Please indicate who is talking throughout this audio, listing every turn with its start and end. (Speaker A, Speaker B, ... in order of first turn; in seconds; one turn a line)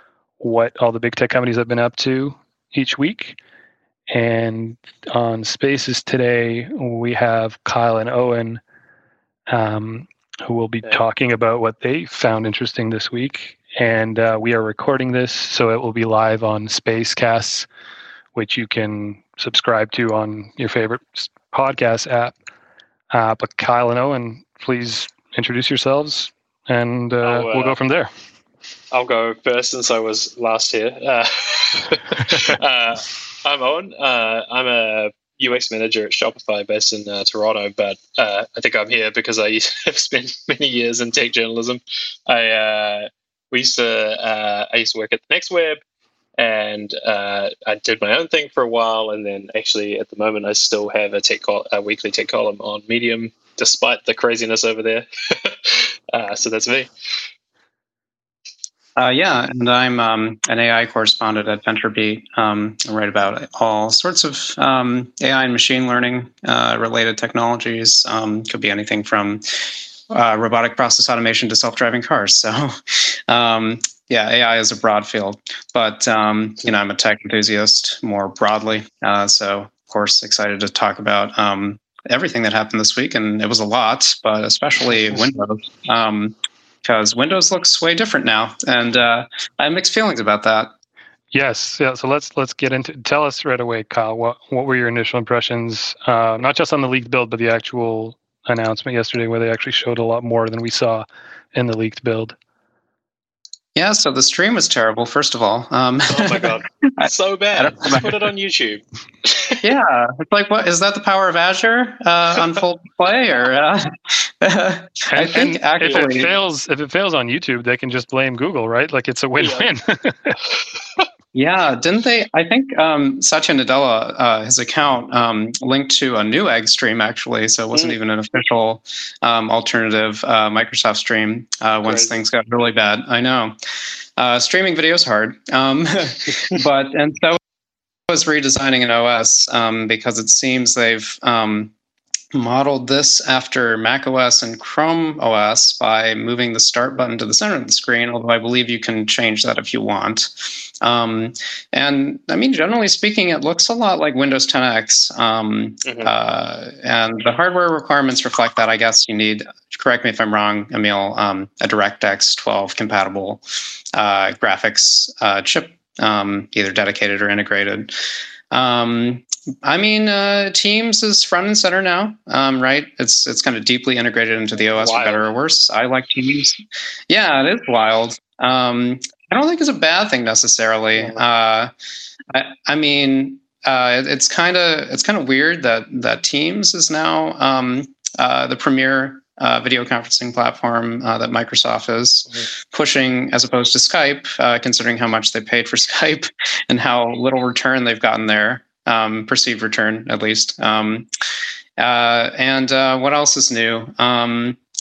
Speaker A: 0.4-3.4
Speaker A: 4.1-8.6
Speaker A: 9.5-17.7
Speaker A: 18.3-22.4
Speaker A: 23.1-28.1
Speaker B: 27.2-27.8
Speaker B: 28.9-45.8
Speaker B: 46.4-56.9
Speaker C: 59.0-90.7
Speaker A: 91.3-102.3
Speaker C: 103.7-108.2
Speaker B: 106.1-109.6
Speaker C: 109.6-116.3
Speaker A: 115.1-120.3
Speaker B: 115.8-116.1
Speaker B: 119.4-119.7
Speaker B: 120.5-121.0
Speaker C: 121.3-133.6
Speaker B: 131.8-132.2
Speaker C: 134.2-137.4
Speaker C: 138.1-141.7
Speaker C: 142.3-167.9
Speaker B: 155.8-156.1
Speaker C: 168.5-181.7
Speaker B: 174.8-175.3
Speaker B: 180.9-181.2
Speaker C: 182.3-201.1
Speaker C: 201.8-204.6